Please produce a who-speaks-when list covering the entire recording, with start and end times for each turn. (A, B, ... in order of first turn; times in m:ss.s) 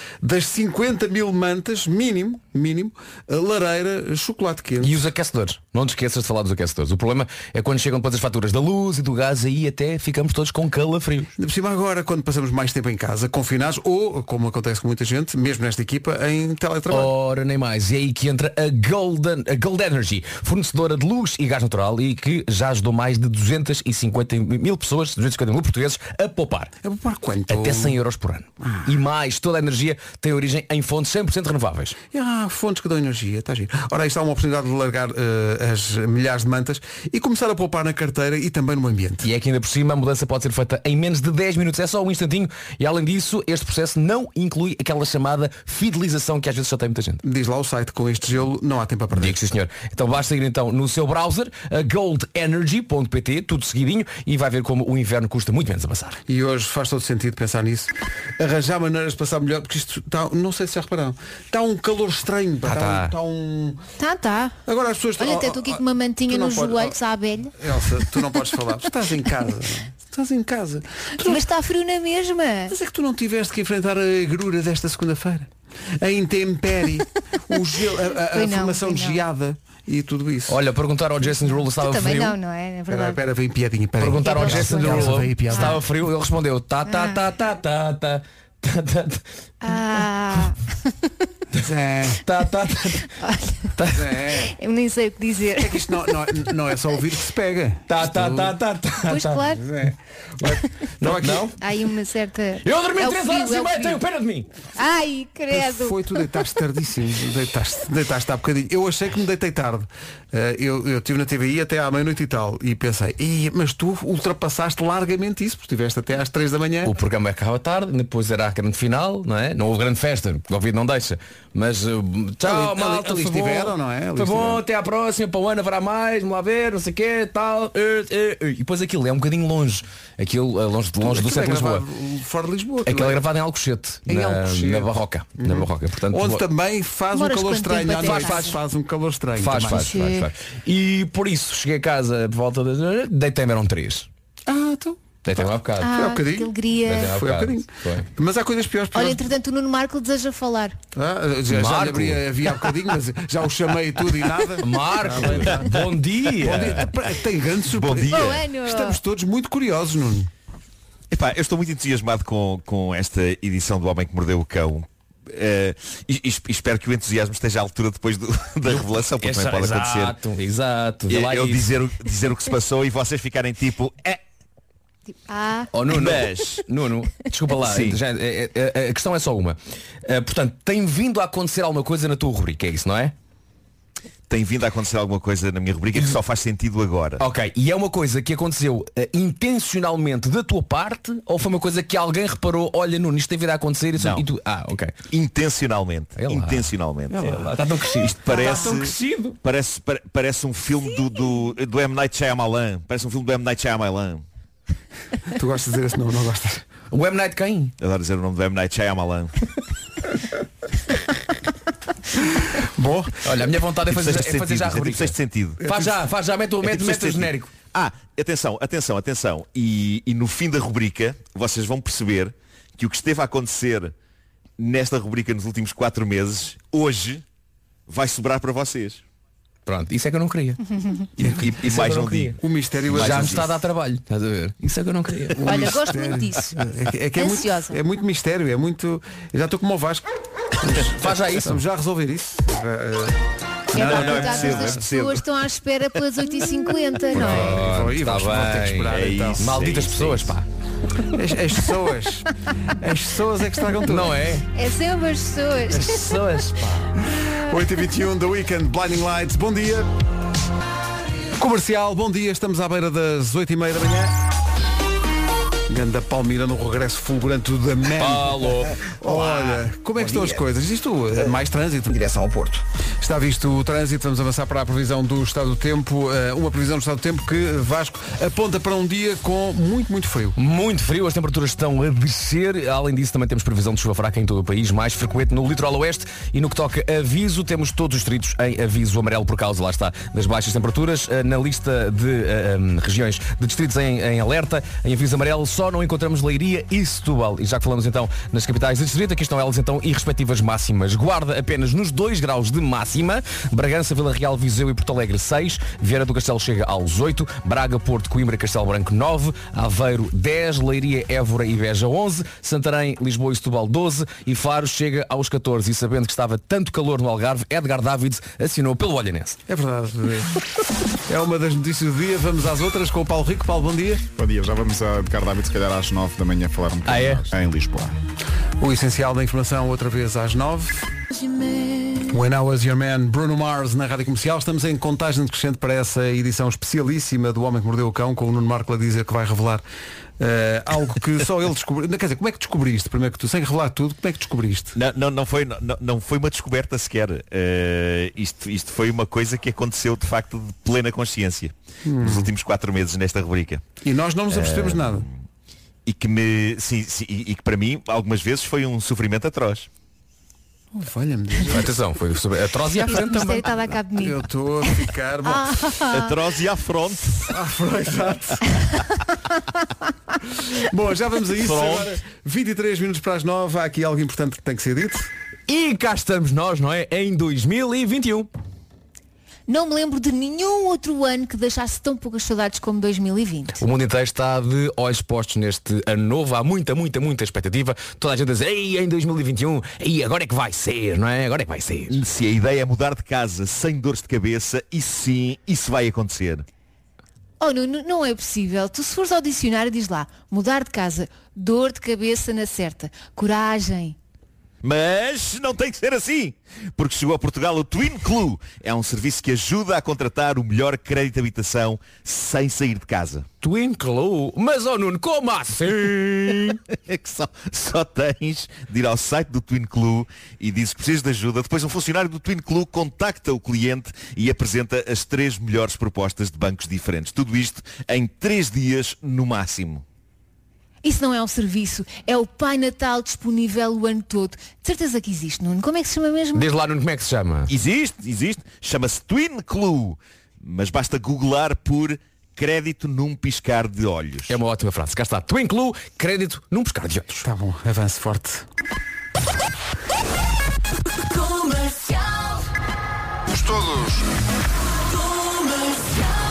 0:00.2-0:05.0 A
0:04.8-0:11.3 B
0:11.4-0:17.1 A
0:16.9-0:26.7 B
0:26.8-0:28.0 A
0:27.5-0:32.0 B
0:32.1-0:39.2 A
0:39.2-0:47.2 B
0:47.2-0:49.4 A
0:49.1-0:56.2 B
0:56.3-1:03.8 A
1:02.6-1:03.1 B
1:04.0-1:04.6 C
1:04.6-1:07.0 A
1:05.2-1:08.2 C
1:07.6-1:11.4 A
1:11.2-1:12.7 C
1:12.7-1:20.5 A
1:18.2-1:19.2 C
1:20.5-1:22.4 B
1:21.5-1:23.2 C
1:22.9-1:25.8 A
1:24.0-1:29.2 B
1:24.2-1:25.8 C
1:26.8-1:27.2 C
1:29.6-1:31.1 C
1:31.6-1:32.2 A
1:32.2-1:33.1 B
1:33.1-1:33.7 C
1:33.8-1:34.2 B
1:33.9-1:34.5 A
1:34.3-1:36.5 C
1:35.6-1:38.5 A
1:37.9-1:39.5 B
1:39.0-1:39.6 C
1:39.6-1:41.4 A
1:41.0-1:41.6 B
1:41.6-1:44.0 C
1:42.6-1:44.5 B
1:44.8-1:46.4 C
1:45.5-1:56.9 A
1:56.8-2:11.8 B
2:02.4-2:04.6 A
2:11.0-2:13.2 A
2:12.8-2:16.4 B
2:14.1-2:19.9 A
2:17.1-2:18.6 C
2:18.0-2:18.6 B
2:19.4-2:24.1 B
2:19.7-2:20.3 C
2:24.5-2:29.2 A
2:25.2-2:25.9 B
2:25.8-2:27.1 C
2:26.9-2:28.1 B
2:28.9-2:30.8 C
2:30.9-2:35.7 A
2:31.5-2:32.2 B
2:34.6-2:36.8 B
2:36.4-2:40.3 A
2:37.7-2:38.4 D
2:38.1-2:39.0 C
2:41.1-2:50.1 D
2:48.7-2:51.7 B
2:51.1-2:54.2 D
2:55.3-2:55.7 C
2:55.7-3:03.1 B
2:55.9-2:56.5 D
2:57.6-2:58.0 D
3:04.3-3:07.2 D
3:07.2-3:14.9 B
3:14.0-3:14.2 D
3:15.1-3:17.3 D
3:16.2-3:19.4 B
3:18.0-3:24.2 D
3:25.3-3:26.6 A
3:26.9-3:27.7 B
3:27.8-3:29.3 D
3:32.6-3:33.2 A
3:33.2-3:37.5 B
3:33.9-3:35.6 D
3:35.6-3:36.0 A
3:36.6-3:43.9 D
3:44.6-3:47.2 D
3:47.9-3:49.0 D
3:49.6-3:50.6 B
3:50.8-3:51.0 C
3:51.2-3:52.4 D
3:51.3-3:52.4 B
3:52.4-3:53.5 A
3:52.9-3:53.4 D
3:52.9-3:55.4 B
3:55.4-4:00.0 A
3:55.4-3:56.6 C
3:57.2-3:57.8 C
4:00.6-4:03.2 A
4:00.8-4:01.6 B
4:03.7-4:04.8 A
4:03.7-4:07.6 C
4:03.8-4:05.2 D
4:03.8-4:04.3 B
4:07.1-4:10.4 B
4:07.2-4:09.6 A
4:08.9-4:10.3 D
4:11.0-4:14.1 A
4:13.9-4:14.4 B
4:14.5-4:16.2 C
4:15.7-4:16.9 B
4:17.2-4:19.9 A
4:21.4-4:24.1 A
4:25.7-4:31.9 A
4:28.0-4:28.8 B
4:28.6-4:30.4 E
4:31.9-4:32.6 E
4:33.0-4:40.4 A
4:40.4-5:19.4 B
5:19.5-5:20.4 A
5:21.1-5:24.0 A
5:24.1-5:27.9 F
5:26.8-5:27.2 B
5:28.6-5:30.9 A
5:31.3-5:32.0 C
5:32.1-5:39.6 A
5:40.2-5:44.8 A
5:44.7-5:53.6 D
5:51.8-5:52.3 A
5:53.8-5:55.0 A
5:54.3-5:55.1 D
5:55.8-5:59.7 D
6:00.7-6:02.0 A
6:01.4-6:03.6 B
6:02.8-6:06.2 C
6:03.9-6:05.7 A
6:05.9-6:07.2 D
6:07.3-6:08.4 A
6:10.6-6:15.1 A
6:11.4-6:11.9 D
6:15.5-6:18.3 B
6:19.5-6:23.6 C
6:23.6-6:32.0 B
6:31.9-6:36.4 D
6:37.4-6:44.0 C
6:44.6-6:53.2 D
6:53.4-6:56.6 B
6:56.9-7:09.8 D
7:10.8-7:16.5 C
7:16.3-7:17.5 B
7:17.5-7:24.4 D
7:24.3-7:27.2 B
7:27.2-7:28.4 A
7:33.5-7:33.9 A